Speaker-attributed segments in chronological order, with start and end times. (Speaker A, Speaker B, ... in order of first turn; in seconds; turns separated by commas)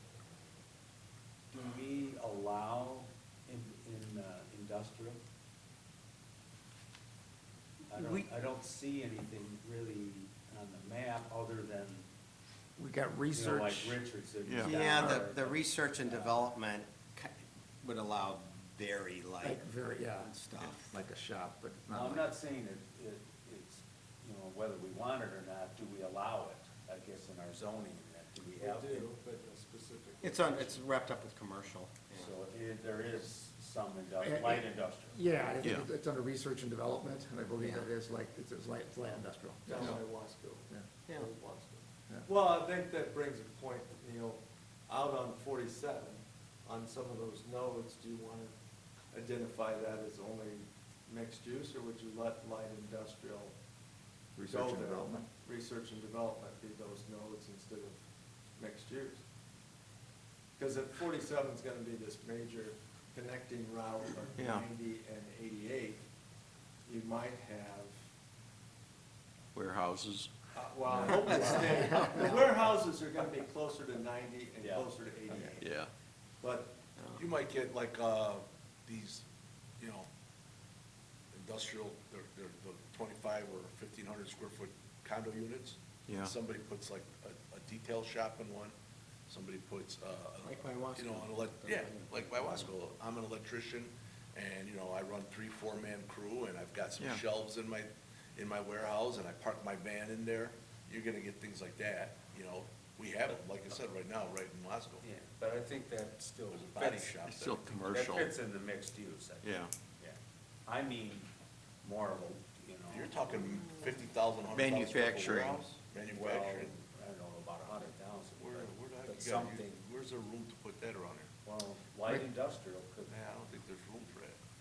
Speaker A: 1.5-5.2, Speaker A: 7.9-12.1, Speaker B: 12.8-14.0, Speaker A: 13.3-16.4, Speaker C: 14.4-14.7, Speaker D: 14.6-17.3, Speaker D: 17.8-19.6, Speaker B: 19.4-20.3, Speaker D: 20.1-20.9, Speaker B: 20.9-22.3, Speaker A: 21.9-29.1, Speaker E: 28.6-30.6, Speaker D: 30.2-32.3, Speaker A: 32.1-35.2, Speaker B: 34.2-40.0, Speaker D: 37.6-37.9, Speaker E: 39.7-48.5, Speaker E: 49.1-53.5, Speaker B: 54.4-55.3, Speaker E: 54.5-58.0, Speaker E: 58.6-59.2, Speaker E: 60.6-66.0, Speaker C: 64.3-64.6, Speaker E: 66.8-68.0, Speaker C: 69.5-70.3, Speaker E: 70.5-75.6, Speaker A: 70.9-71.8, Speaker B: 71.7-72.2, Speaker A: 74.6-74.9, Speaker C: 75.6-75.9, Speaker E: 76.4-76.8, Speaker F: 77.1-79.2, Speaker F: 79.8-80.1, Speaker F: 81.4-88.7, Speaker C: 86.1-86.3, Speaker F: 89.3-105.0, Speaker D: 90.4-92.7, Speaker A: 105.0-107.3, Speaker F: 106.5-107.9, Speaker C: 107.3-108.3, Speaker A: 107.9-111.3, Speaker C: 109.4-109.7, Speaker A: 111.8-113.2, Speaker F: 112.9-116.8, Speaker C: 114.5-115.6, Speaker A: 116.0-119.8, Speaker F: 118.4-121.3, Speaker A: 121.4-123.3, Speaker F: 123.0-124.4